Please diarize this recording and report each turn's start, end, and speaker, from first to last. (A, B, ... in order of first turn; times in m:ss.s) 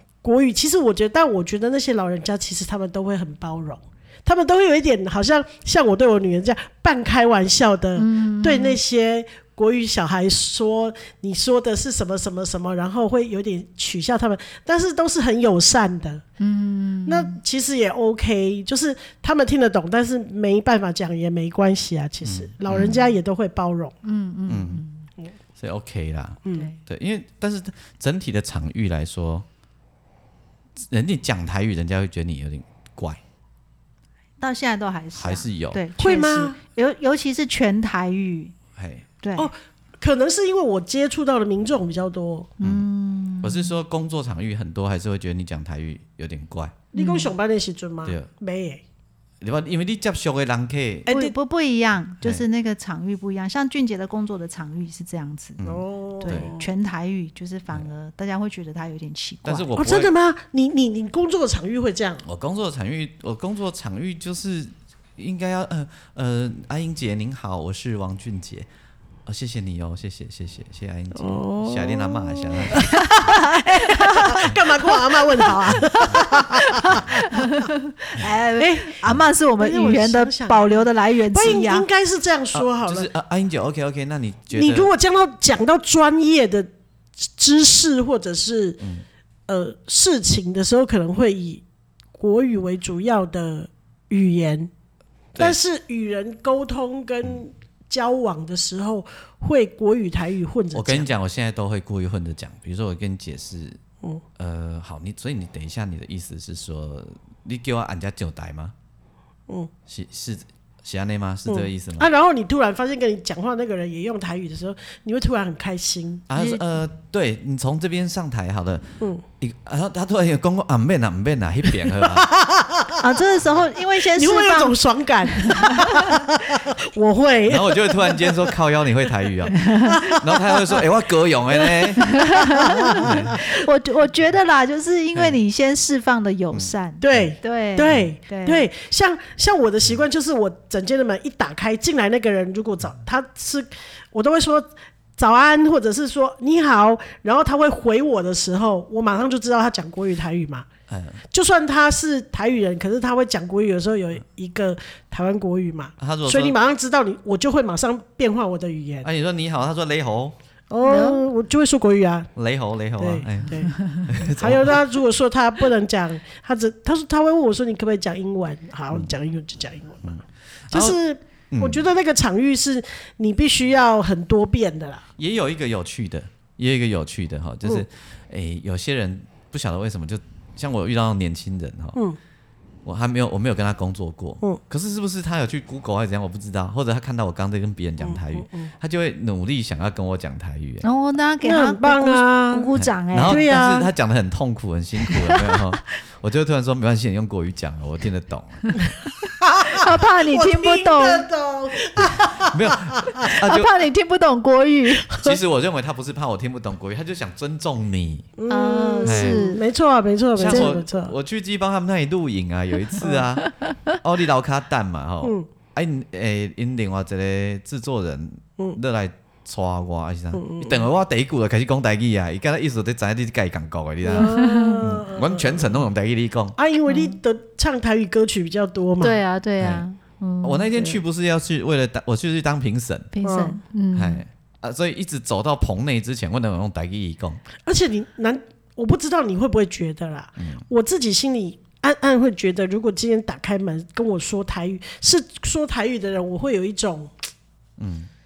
0:00.2-0:16.2 A
0:08.0-0:08.8 B
0:16.4-0:17.4 B
0:17.1-0:24.0 A
0:22.2-0:23.0 C
0:24.0-0:25.1 B
0:24.5-0:24.8 C
0:25.6-0:29.5 C
0:30.8-0:33.2 C
0:34.4-0:38.5 B
0:35.2-0:35.8 C
0:36.0-0:36.6 A
0:38.8-0:39.1 C
0:39.2-0:39.5 B
0:39.4-0:42.5 A
0:42.6-0:43.7 B
0:42.6-0:42.9 C
0:43.4-0:46.8 C
0:46.9-0:48.8 A
0:47.0-0:47.3 B
0:49.4-0:51.1 C
0:51.1-0:51.4 A
0:51.1-0:55.6 B
0:55.6-0:56.5 C
0:55.6-0:56.7 A
0:56.2-0:59.7 B
0:59.4-1:00.1 C
0:59.8-1:02.2 A
1:02.2-1:08.7 C
1:09.3-1:12.8 C
1:11.2-1:17.0 A
1:12.8-1:21.9 B
1:18.6-1:19.1 A
1:19.6-1:23.1 A
1:22.5-1:24.9 C
1:24.5-1:28.8 A
1:29.5-1:31.6 A
1:32.2-1:34.7 A
1:35.4-1:41.1 A
1:40.7-1:43.8 C
1:44.4-1:48.8 C
1:49.9-1:52.1 C
1:51.5-1:56.3 A
1:56.3-2:02.3 C
1:56.4-1:56.6 B
2:01.9-2:03.0 A
2:03.0-2:04.8 B
2:04.0-2:08.5 A
2:05.3-2:06.2 B
2:07.5-2:12.2 C
2:09.5-2:10.0 B
2:09.9-2:10.8 A
2:11.6-2:13.5 A
2:12.0-2:18.7 B
2:13.0-2:13.4 C
2:16.5-2:17.3 C
2:17.0-2:30.7 A
2:30.9-2:31.2 C
2:31.3-2:39.1 A
2:36.0-2:36.6 C
2:39.0-2:40.4 C
2:40.7-2:42.3 A
2:40.8-2:41.3 B
2:42.4-2:44.8 C
2:43.0-2:43.7 A
2:44.4-2:50.2 A
2:50.0-2:51.0 C
2:50.7-2:55.1 A
2:51.5-2:51.8 C
2:55.2-3:02.0 C
3:02.8-3:10.8 C
3:08.0-3:08.7 A
3:10.8-3:13.6 B
3:11.4-3:12.7 A
3:12.8-3:18.9 C
3:13.2-3:13.9 A
3:15.1-3:15.4 B
3:18.7-3:19.1 B
3:19.4-3:23.3 A
3:19.6-3:21.3 B
3:22.0-3:23.7 C
3:23.2-3:25.1 B
3:25.0-3:25.4 A
3:25.2-3:28.3 C
3:28.4-3:31.2 A
3:28.5-3:29.6 B
3:29.0-3:29.4 C
3:30.4-3:33.5 C
3:30.5-3:30.8 B
3:33.0-3:33.3 A
3:33.5-3:34.0 B
3:34.0-3:46.6 C
3:40.3-3:40.9 A
3:44.0-3:45.7 A
3:44.1-3:44.8 B
3:46.6-3:49.2 A
3:46.9-3:47.2 B
3:49.0-3:50.7 B
3:50.4-3:53.2 C
3:53.1-3:54.2 B
3:53.2-3:53.6 A
3:53.9-3:57.4 C
3:57.7-4:07.1 A
4:00.4-4:00.6 C
4:07.8-4:08.1 C